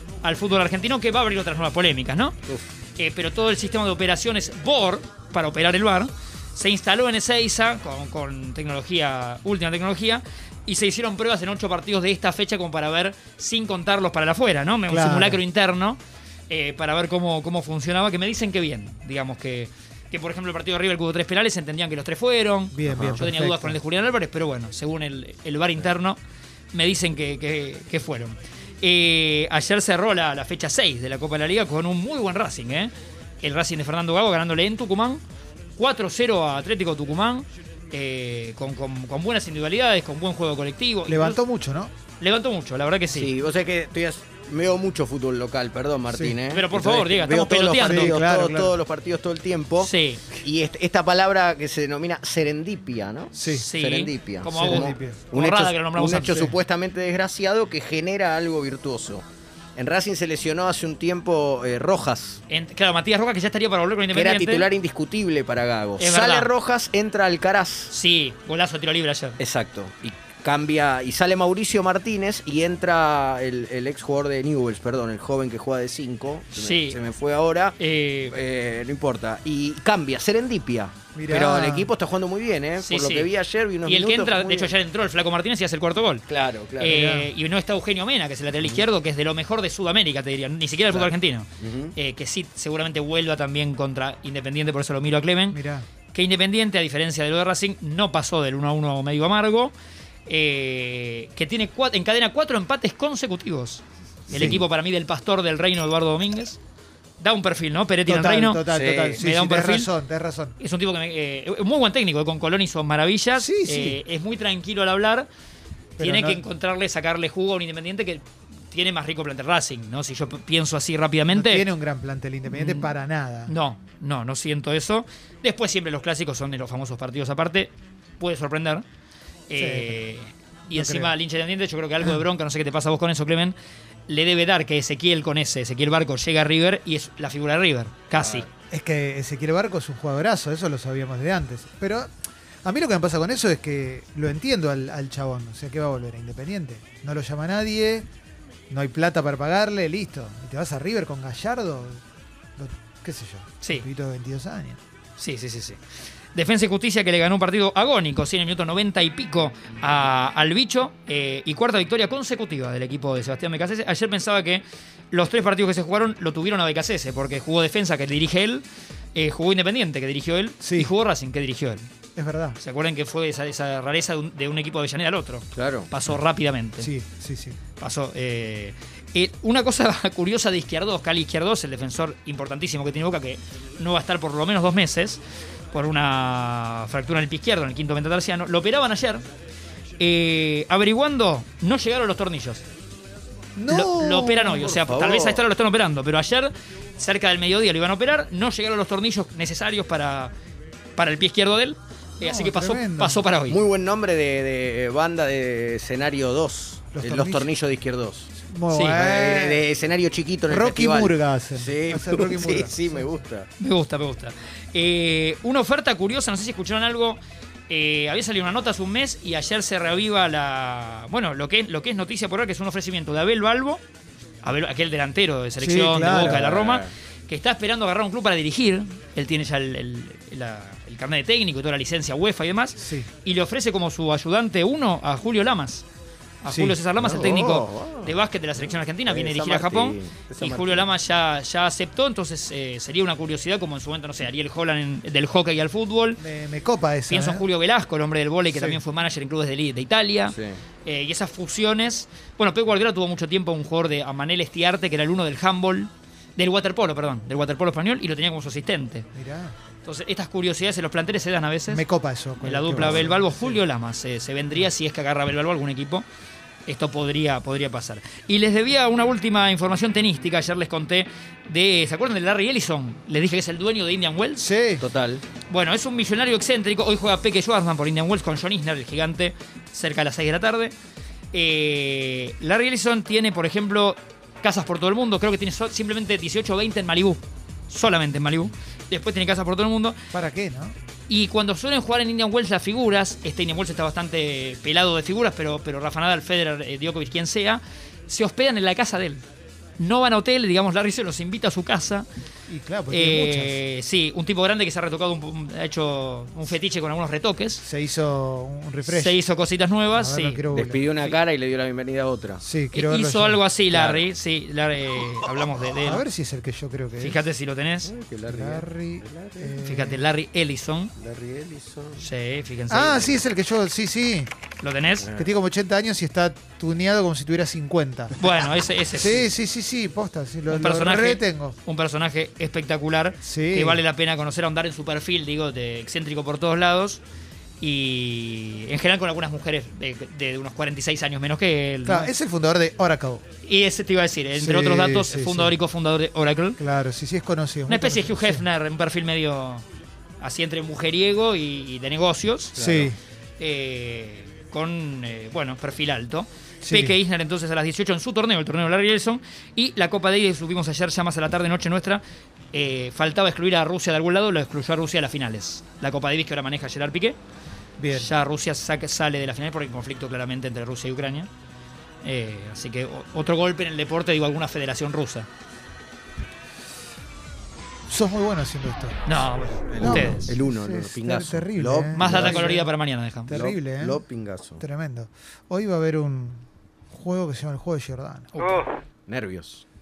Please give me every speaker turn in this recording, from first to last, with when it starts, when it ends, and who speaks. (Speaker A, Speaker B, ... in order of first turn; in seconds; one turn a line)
Speaker A: 0.2-2.4
Speaker A: 3.0-26.2
Speaker B: 14.9-15.4
Speaker B: 22.7-23.8
Speaker C: 22.9-23.2
Speaker A: 26.7-35.2
Speaker A: 35.8-41.4
Speaker B: 41.1-41.9
Speaker A: 42.2-43.3
Speaker C: 43.1-59.2
Speaker B: 46.1-46.4
Speaker A: 46.5-48.2
Speaker B: 47.8-48.8
Speaker A: 49.8-50.3
Speaker B: 53.3-53.7
Speaker A: 53.5-56.5
Speaker B: 54.5-55.2
Speaker B: 56.2-56.5
Speaker C: 59.8-62.4
Speaker A: 62.5-64.7
Speaker C: 64.1-67.9
Speaker A: 66.0-66.5
Speaker A: 67.9-69.4
Speaker C: 69.4-77.8
Speaker A: 76.6-77.0
Speaker A: 77.8-78.3
Speaker C: 78.3-84.8
Speaker B: 81.1-81.9
Speaker A: 82.8-83.3
Speaker A: 83.8-86.2
Speaker C: 86.3-87.0
Speaker B: 86.8-87.3
Speaker A: 86.8-95.6
Speaker C: 90.9-92.0
Speaker B: 95.5-95.9
Speaker A: 96.1-99.7
Speaker A: 100.3-106.6
Speaker B: 104.3-104.6
Speaker A: 107.2-109.9
Speaker B: 108.1-110.6
Speaker C: 108.7-109.2
Speaker A: 110.6-115.3
Speaker B: 113.3-114.0
Speaker B: 116.0-116.4
Speaker A: 116.0-121.7
Speaker B: 121.3-123.5
Speaker A: 122.5-122.9
Speaker A: 123.5-128.8
Speaker A: 129.5-133.5
Speaker B: 129.6-130.0
Speaker B: 130.7-131.1
Speaker A: 134.1-138.5
Speaker C: 138.2-138.4
Speaker B: 138.7-142.1
Speaker B: 142.6-148.1
Speaker B: 148.7-152.0
Speaker B: 152.6-154.8
Speaker A: 155.2-155.8
Speaker A: 156.3-171.9
Speaker B: 170.6-170.9
Speaker B: 172.2-172.6
Speaker A: 172.6-176.9
Speaker C: 175.6-175.9
Speaker B: 176.8-177.6
Speaker A: 177.8-185.2
Speaker A: 185.7-189.2
Speaker A: 190.0-192.6
Speaker B: 193.6-194.7
Speaker A: 193.7-200.3
Speaker C: 194.6-195.4
Speaker A: 201.0-203.6
Speaker B: 202.2-203.2
Speaker C: 203.5-208.3
Speaker B: 206.9-207.5
Speaker B: 208.4-209.7
Speaker A: 208.7-209.1
Speaker C: 208.9-213.5
Speaker B: 210.5-213.1
Speaker A: 213.6-223.8
Speaker A: 224.4-235.8
Speaker B: 225.6-226.5
Speaker C: 226.1-226.9
Speaker B: 232.8-233.1
Speaker A: 236.4-246.2
Speaker B: 236.5-236.8
Speaker C: 237.0-240.9
Speaker B: 246.2-247.5
Speaker A: 247.1-259.1
Speaker B: 248.5-248.8
Speaker C: 250.3-250.6
Speaker B: 259.1-259.6
Speaker A: 259.8-261.9
Speaker B: 261.7-263.6
Speaker A: 262.4-266.1
Speaker A: 266.6-274.5
Speaker B: 274.4-274.8
Speaker C: 274.8-275.2
Speaker A: 275.5-280.7
Speaker A: 281.3-290.0
Speaker B: 290.1-290.7
Speaker A: 291.1-299.2
Speaker A: 299.8-302.1
Speaker B: 302.5-303.6
Speaker A: 302.9-307.6
Speaker B: 307.6-309.2
Speaker A: 308.8-310.4
Speaker B: 309.9-310.9
Speaker C: 310.5-312.4
Speaker B: 312.4-313.4
Speaker A: 312.7-316.0
Speaker C: 313.7-314.0
Speaker B: 315.8-317.2
Speaker A: 317.0-317.9
Speaker C: 317.8-319.5
Speaker B: 318.3-320.0
Speaker A: 319.6-320.9
Speaker C: 321.0-322.1
Speaker A: 322.0-323.2
Speaker B: 322.7-324.3
Speaker A: 324.6-325.1
Speaker C: 325.0-325.3
Speaker B: 325.1-331.6
Speaker A: 328.2-329.3
Speaker A: 330.5-337.0
Speaker B: 333.2-333.8
Speaker A: 337.6-342.1
Speaker B: 341.8-343.2
Speaker A: 343.4-346.6
Speaker B: 344.4-345.5
Speaker B: 346.6-348.4
Speaker A: 347.7-349.6
Speaker A: 350.2-352.6
Speaker C: 352.5-352.9
Speaker B: 352.6-353.0
Speaker A: 353.4-362.0
Speaker B: 356.6-357.0
Speaker A: 362.5-367.2
Speaker B: 367.8-368.1
Speaker A: 367.9-371.3
Speaker A: 372.0-375.3
Speaker B: 377.9-379.0
Speaker A: 379.1-380.3
Speaker C: 379.7-382.6
Speaker B: 379.8-382.7
Speaker A: 381.9-383.4
Speaker B: 383.3-384.0
Speaker C: 383.3-384.6
Speaker B: 384.6-388.3
Speaker A: 388.3-388.7
Speaker C: 389.1-389.6